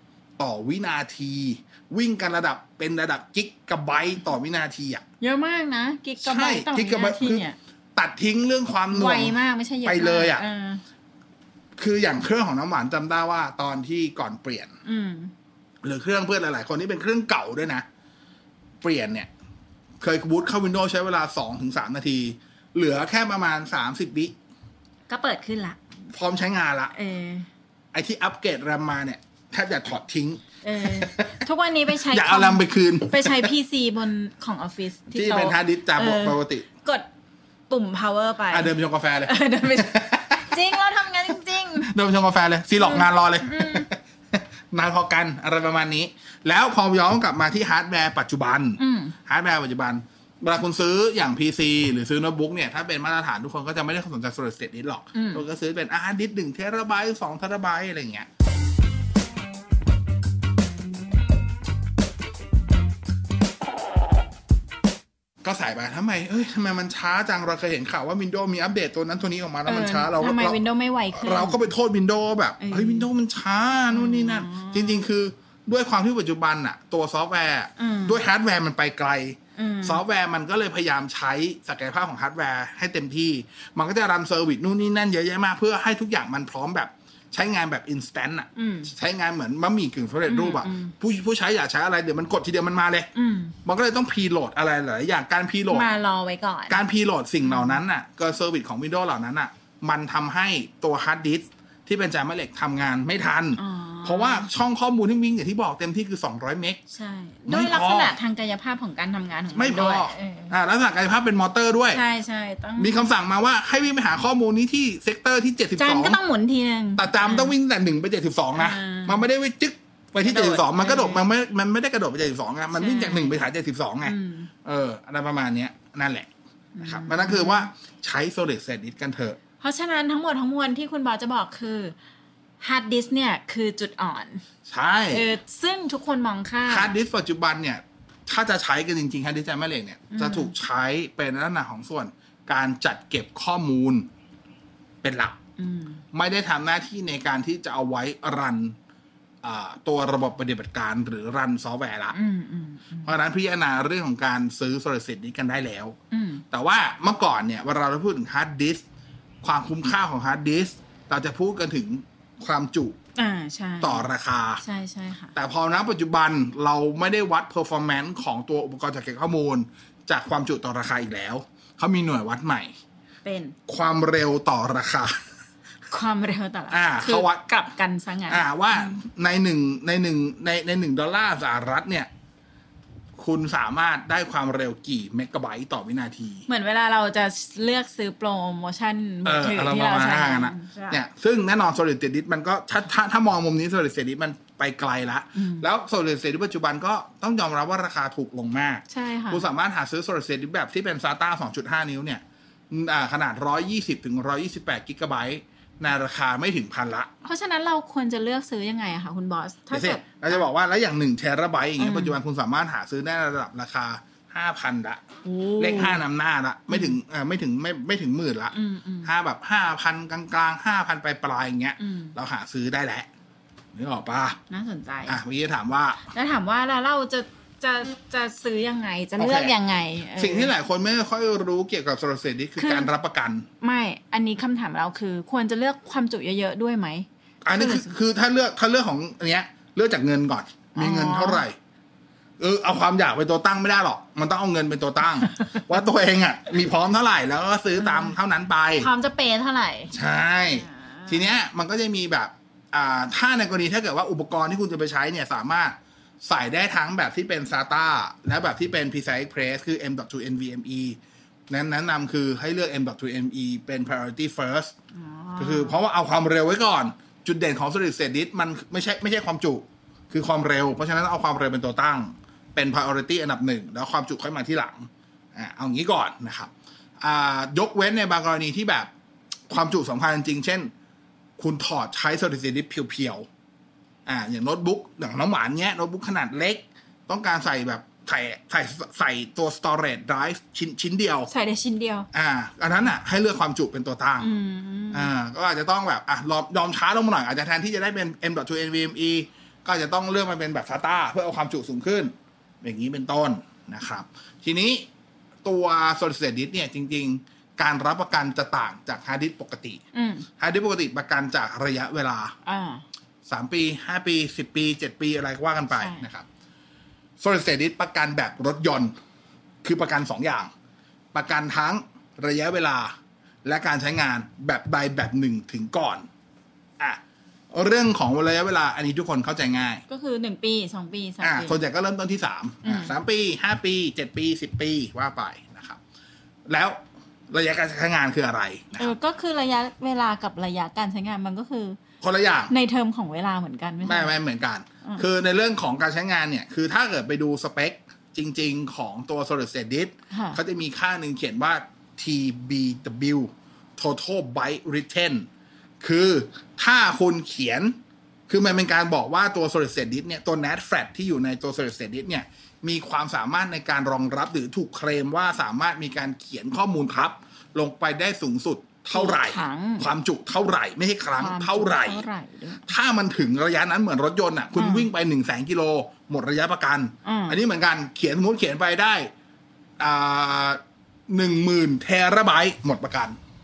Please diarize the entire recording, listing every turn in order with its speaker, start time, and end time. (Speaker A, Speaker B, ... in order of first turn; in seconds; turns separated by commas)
Speaker A: 0.4-5.0, Speaker B: 5.2-7.6, Speaker A: 6.2-7.5, Speaker A: 8.0-10.4, Speaker B: 8.9-10.8, Speaker A: 11.8-14.8, Speaker B: 14.8-15.3, Speaker A: 15.8-17.9, Speaker A: 18.8-19.3, Speaker A: 20.0-24.3, Speaker B: 25.1-25.8, Speaker A: 26.1-26.9, Speaker B: 26.9-27.5, Speaker A: 27.9-31.4, Speaker B: 30.6-37.0, Speaker A: 32.1-33.5, Speaker A: 35.1-36.7, Speaker B: 37.7-38.7, Speaker A: 38.5-40.7, Speaker B: 39.2-41.9, Speaker A: 41.6-58.3, Speaker B: 42.8-43.9, Speaker B: 48.8-49.1, Speaker B: 55.1-55.4, Speaker A: 65.4-93.1, Speaker B: 69.6-71.6, Speaker B: 72.6-73.1, Speaker B: 73.9-75.1, Speaker B: 77.8-78.2, Speaker B: 79.6-80.0, Speaker B: 88.6-88.9, Speaker B: 90.3-90.9, Speaker B: 93.1-93.5, Speaker A: 93.6-95.9, Speaker B: 95.7-96.8, Speaker A: 96.7-106.8, Speaker B: 97.4-97.8, Speaker B: 103.5-104.5, Speaker B: 106.9-110.5, Speaker A: 107.5-108.2, Speaker A: 109.5-112.0, Speaker B: 111.9-113.1, Speaker A: 112.8-116.2, Speaker B: 115.8-117.5, Speaker A: 117.0-126.3, Speaker B: 118.5-119.2, Speaker B: 120.2-121.3, Speaker B: 122.7-123.5, Speaker B: 124.0-124.5, Speaker B: 126.8-127.7, Speaker A: 126.8-129.4, Speaker B: 129.6-131.9, Speaker B: 132.6-134.4, Speaker A: 134.7-135.3, Speaker B: 135.1-136.9, Speaker A: 136.7-144.1, Speaker B: 140.1-140.5, Speaker A: 145.0-145.4, Speaker B: 145.6-146.0, Speaker A: 146.1-148.8, Speaker A: 149.4-152.2, Speaker B: 152.1-153.2, Speaker A: 153.0-156.0, Speaker B: 156.1-156.4, Speaker A: 156.5-158.8, Speaker A: 159.4-163.0, Speaker B: 163.2-164.1, Speaker A: 163.8-164.6, Speaker B: 164.6-165.3, Speaker A: 165.3-172.7, Speaker B: 173.2-173.6, Speaker A: 173.7-175.2, Speaker B: 175.9-179.0, Speaker A: 176.7-177.5, Speaker A: 178.3-182.1, Speaker A: 183.2-186.5, Speaker B: 186.5-191.0, Speaker A: 189.2-207.1, Speaker B: 195.3-195.7, Speaker B: 198.9-199.5, Speaker B: 207.2-210.5, Speaker A: 209.7-215.1, Speaker B: 211.8-212.2, Speaker B: 215.2-216.0, Speaker A: 215.6-223.1, Speaker B: 216.7-217.0, Speaker B: 218.5-219.1, Speaker B: 221.8-222.2, Speaker A: 223.7-224.4, Speaker B: 224.5-225.2, Speaker A: 225.1-226.0, Speaker B: 226.1-230.5, Speaker A: 229.2-229.6, Speaker A: 230.2-233.5, Speaker B: 232.6-232.9, Speaker B: 233.6-237.9, Speaker A: 237.4-241.6, Speaker B: 240.8-241.4, Speaker A: 242.4-248.9, Speaker B: 247.8-248.1, Speaker B: 248.8-249.9, Speaker A: 249.9-261.0, Speaker B: 250.5-251.3, Speaker A: 261.5-264.7, Speaker B: 264.9-265.8, Speaker A: 265.4-278.9, Speaker A: 279.5-280.7, Speaker A: 281.4-283.2, Speaker A: 284.1-291.3, Speaker B: 291.3-292.1, Speaker A: 292.1-294.4, Speaker B: 294.2-295.1, Speaker A: 294.9-304.9, Speaker A: 305.4-309.8, Speaker B: 309.9-310.3, Speaker A: 310.4-312.4, Speaker B: 312.4-312.8, Speaker A: 313.2-316.2, Speaker B: 315.7-316.1, Speaker A: 317.2-318.9, Speaker A: 319.6-320.5, Speaker A: 321.1-326.1, Speaker A: 327.5-329.8, Speaker B: 329.9-331.6, Speaker A: 331.2-335.8, Speaker B: 332.6-332.9, Speaker A: 336.5-338.9, Speaker B: 338.8-341.8, Speaker A: 342.0-342.5, Speaker B: 342.5-344.2, Speaker A: 343.8-355.3, Speaker B: 350.1-350.4, Speaker A: 355.8-357.8, Speaker A: 358.3-372.0, Speaker B: 368.9-369.9, Speaker B: 371.2-372.7, Speaker A: 372.6-379.1, Speaker B: 374.6-374.9, Speaker B: 377.1-377.4, Speaker A: 379.8-383.2